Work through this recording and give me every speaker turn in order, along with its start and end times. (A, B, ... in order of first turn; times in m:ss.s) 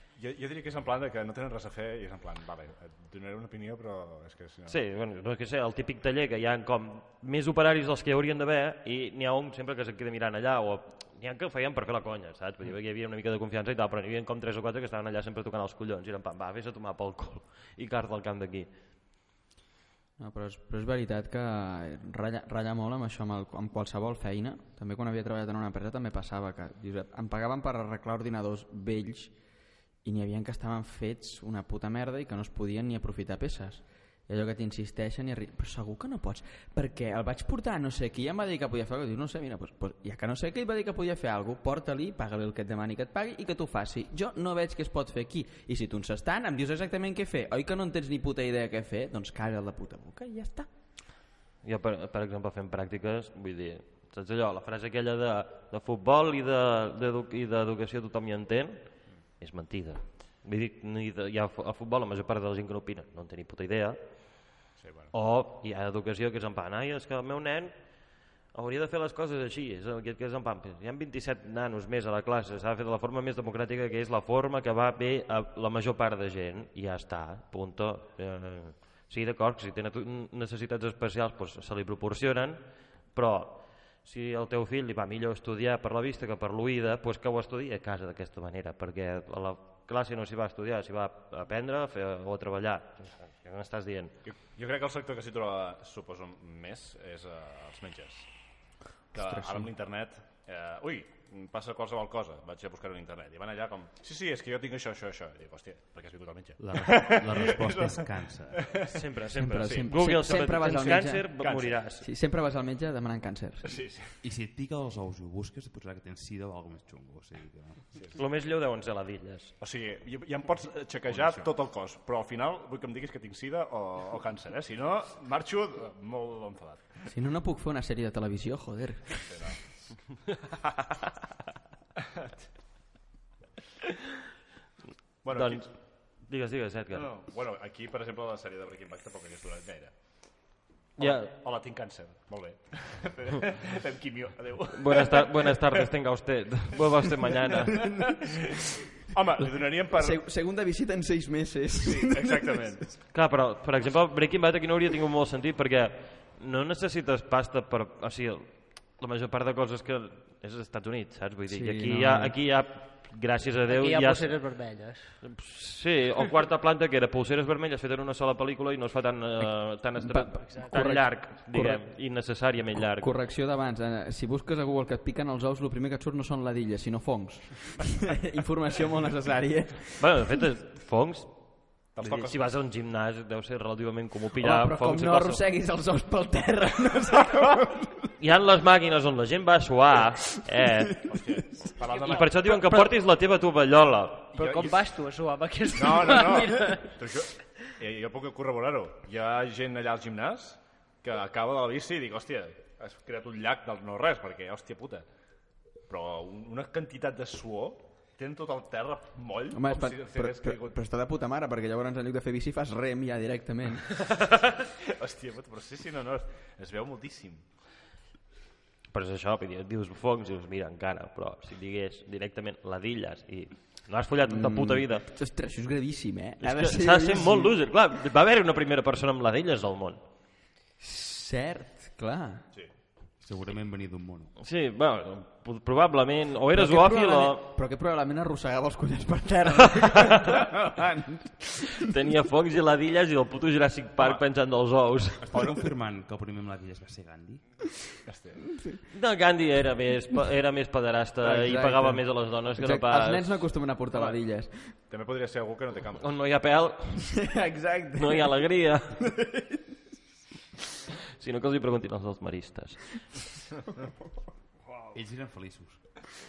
0:00.2-0:04.8 A
0:04.7-0:18.7 B
0:20.2-0:29.3 C
0:30.0-0:50.7 C
0:51.6-0:58.8 B
0:59.4-1:04.0 B
1:04.8-1:05.1 A
1:05.1-1:07.7 B
1:08.5-1:34.2 B
1:34.3-1:38.3 A
1:39.1-1:39.7 C
1:39.1-1:49.0 A
1:46.6-1:48.6 D
1:48.9-1:52.1 B
1:49.4-1:51.3 C
1:51.4-1:51.8 A
1:52.0-1:53.8 C
1:53.6-1:54.2 A
1:54.2-1:57.9 D
1:58.2-1:59.5 B
1:59.6-2:07.0 A
2:01.1-2:01.4 D
2:07.1-2:09.3 C
2:09.2-2:09.6 A
2:15.2-2:15.7 A
2:15.3-2:15.7 B
2:16.2-2:17.1 B
2:16.9-2:19.9 A
2:21.0-2:25.9 A
2:21.0-2:21.3 B
2:24.7-2:27.9 B
2:27.8-2:28.4 A
2:29.1-2:30.2 A
2:29.9-2:32.6 C
2:31.8-2:32.8 A
2:33.1-2:44.3 B
2:41.5-2:42.4 C
2:43.7-2:45.2 E
2:45.2-2:53.1 B
2:50.0-2:51.9 C
2:52.8-3:00.0 C
3:00.0-3:01.4 B
3:02.0-3:02.4 A
3:02.0-3:05.4 B
3:04.4-3:07.9 C
3:08.2-3:11.0 B
3:11.1-3:12.4 A
3:11.8-3:12.9 E
3:12.0-3:14.3 B
3:14.4-3:14.8 A
3:14.4-3:16.9 E
3:15.7-3:25.0 A
3:25.9-3:30.8 A
3:29.5-3:33.9 C
3:34.8-3:37.4 A
3:38.9-3:45.1 B
3:44.3-3:47.6 C
3:46.4-3:50.0 B
3:50.8-3:52.4 C
3:53.2-3:54.3 D
3:54.4-3:57.4 B
3:56.5-4:01.9 C
3:59.8-4:00.4 B
4:01.8-4:05.2 B
4:05.2-4:07.4 D
4:08.1-4:08.4 A
4:08.9-4:13.3 B
4:11.2-4:14.7 C
4:14.9-4:16.1 A
4:16.0-4:17.2 B
4:17.1-4:18.4 C
4:18.0-4:19.0 B
4:19.0-4:19.6 C
4:21.2-4:22.9 B
4:24.9-4:25.8 D